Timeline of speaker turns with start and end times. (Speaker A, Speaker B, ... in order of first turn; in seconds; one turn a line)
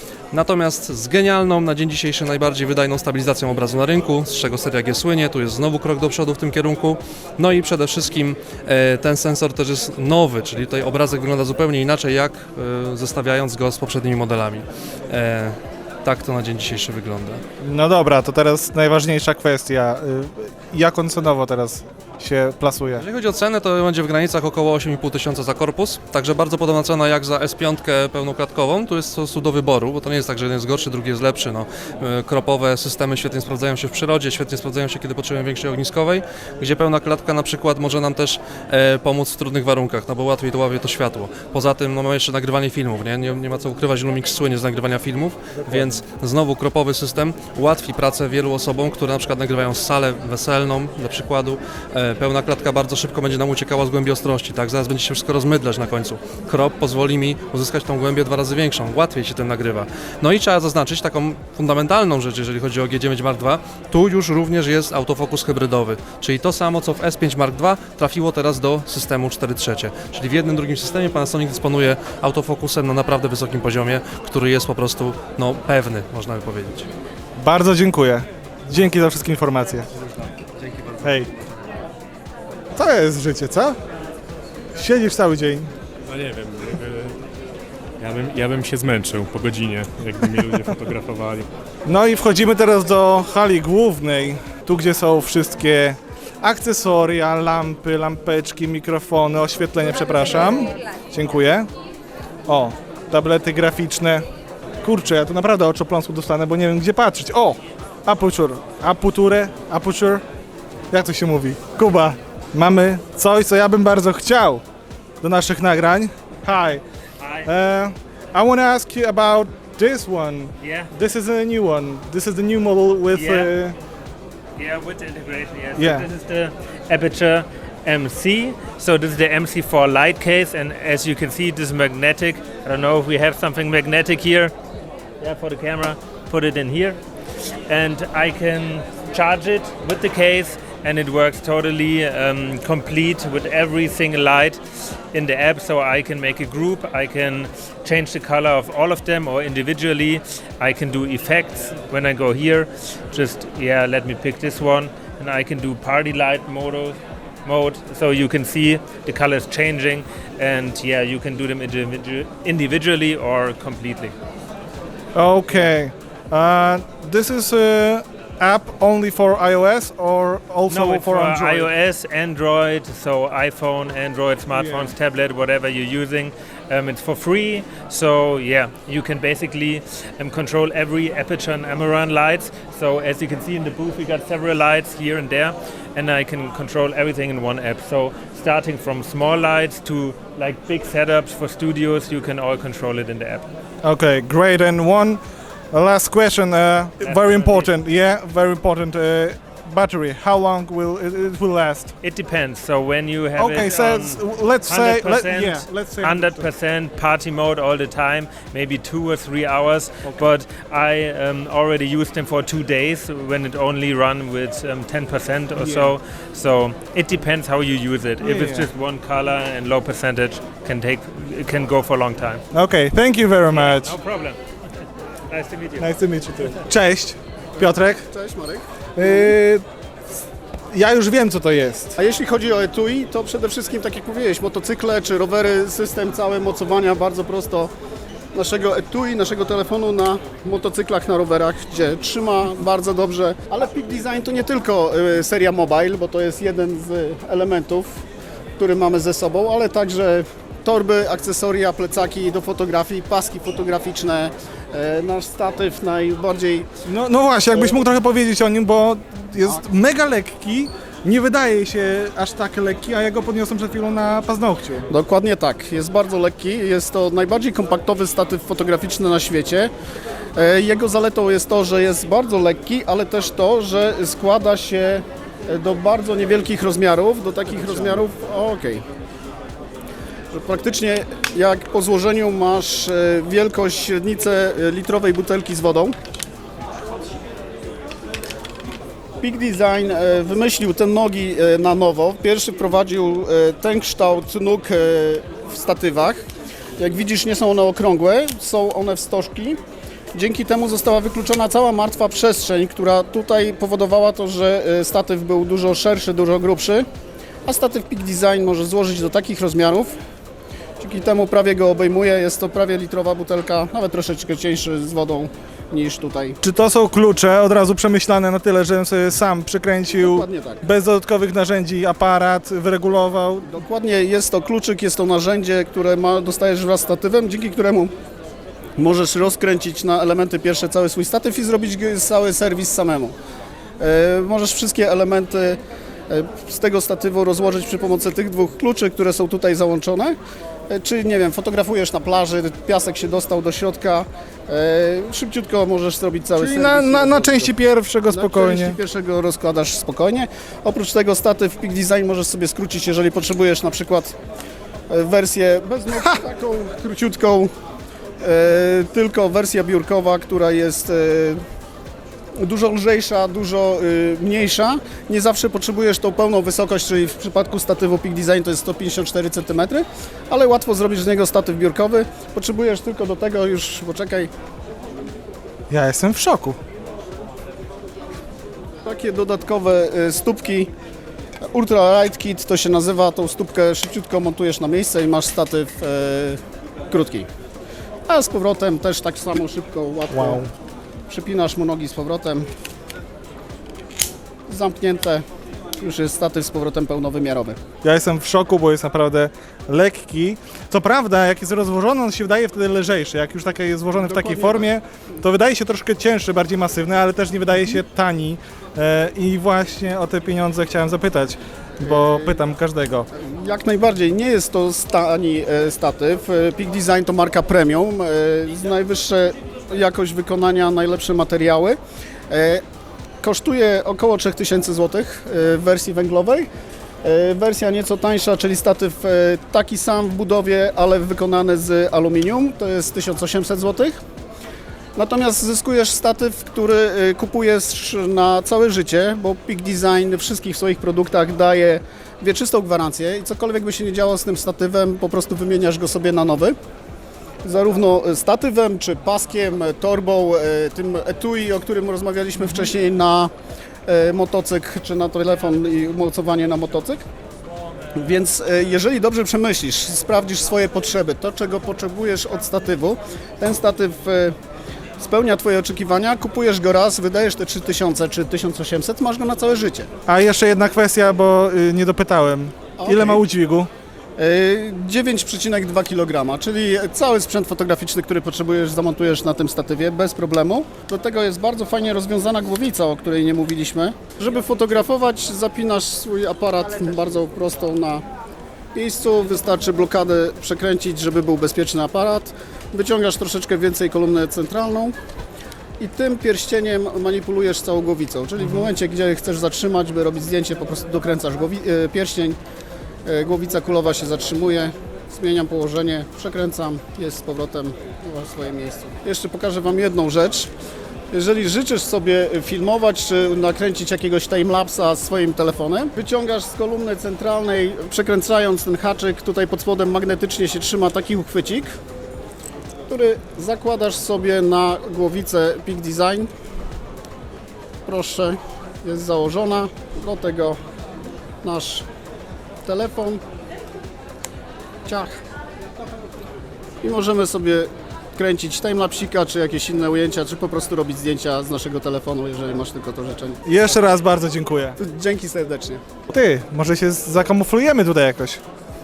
Speaker A: 0.3-17.4
Speaker B: 17.6-23.0
Speaker A: 23.0-76.9
Speaker B: 77.4-79.9
Speaker A: 80.6-81.0
Speaker B: 81.0-81.3
Speaker B: 82.7-83.8
Speaker B: 84.7-85.7
Speaker C: 86.0-87.2
Speaker C: 88.0-91.5
Speaker B: 91.8-101.7
Speaker B: 102.5-104.2
Speaker B: 104.8-110.2
Speaker B: 110.9-114.6
Speaker B: 115.2-116.8
Speaker D: 117.2-117.5
Speaker B: 117.5-123.7
Speaker D: 120.6-120.9
Speaker D: 123.1-123.5
Speaker D: 124.6-134.5
Speaker B: 125.8-126.1
Speaker D: 135.2-137.0
Speaker D: 137.7-144.6
Speaker D: 145.1-164.1
Speaker B: 165.1-171.7
Speaker D: 170.7-193.5
Speaker B: 174.5-174.9
Speaker B: 193.8-195.2
Speaker B: 195.7-201.9
Speaker D: 197.0-197.7
Speaker D: 202.0-222.4
Speaker B: 203.3-206.5
Speaker B: 215.6-215.9
Speaker B: 218.2-218.7
Speaker B: 222.5-223.9
Speaker D: 223.5-224.4
Speaker D: 225.3-225.9
Speaker B: 225.8-228.1
Speaker E: 227.6-229.3
Speaker B: 228.9-229.6
Speaker B: 230.7-232.0
Speaker E: 232.0-237.7
Speaker E: 238.3-248.0
Speaker E: 248.6-256.7
Speaker B: 256.9-264.9
Speaker E: 264.9-269.7
Speaker E: 270.4-278.8
Speaker E: 280.3-285.9
Speaker E: 289.2-296.2
Speaker E: 296.8-299.6
Speaker E: 300.1-306.9
Speaker E: 307.4-310.0
Speaker E: 310.8-316.4
Speaker B: 316.4-323.5
Speaker E: 319.9-320.6
Speaker E: 323.5-327.9
Speaker E: 328.8-333.1
Speaker E: 333.8-340.2
Speaker E: 340.7-347.5
Speaker B: 346.3-348.8
Speaker E: 348.1-354.1
Speaker E: 354.9-357.5
Speaker E: 358.2-361.4
Speaker E: 362.4-374.3
Speaker B: 375.7-376.6
Speaker E: 378.8-380.7
Speaker E: 381.4-387.3
Speaker E: 388.1-390.4
Speaker B: 390.1-390.5
Speaker E: 391.1-392.5
Speaker E: 394.5-395.2
Speaker E: 395.8-397.6
Speaker B: 397.8-413.1
Speaker E: 403.9-404.7
Speaker E: 411.8-412.4
Speaker E: 413.1-421.8
Speaker E: 422.3-422.6
Speaker E: 423.2-426.5
Speaker E: 427.0-434.0
Speaker E: 434.9-446.6
Speaker E: 447.4-453.3
Speaker E: 453.9-457.0
Speaker E: 457.9-464.3
Speaker E: 465.0-469.9
Speaker B: 470.1-473.7
Speaker E: 472.8-473.2
Speaker E: 474.2-488.0
Speaker E: 488.7-494.9
Speaker E: 495.8-502.4
Speaker E: 503.1-510.5
Speaker E: 511.1-521.7
Speaker E: 522.9-526.3
Speaker E: 527.9-530.6
Speaker E: 531.4-531.9
Speaker E: 532.6-533.2
Speaker E: 534.8-535.2
Speaker E: 536.8-543.4
Speaker B: 543.4-544.8
Speaker E: 544.8-545.8
Speaker B: 546.1-548.4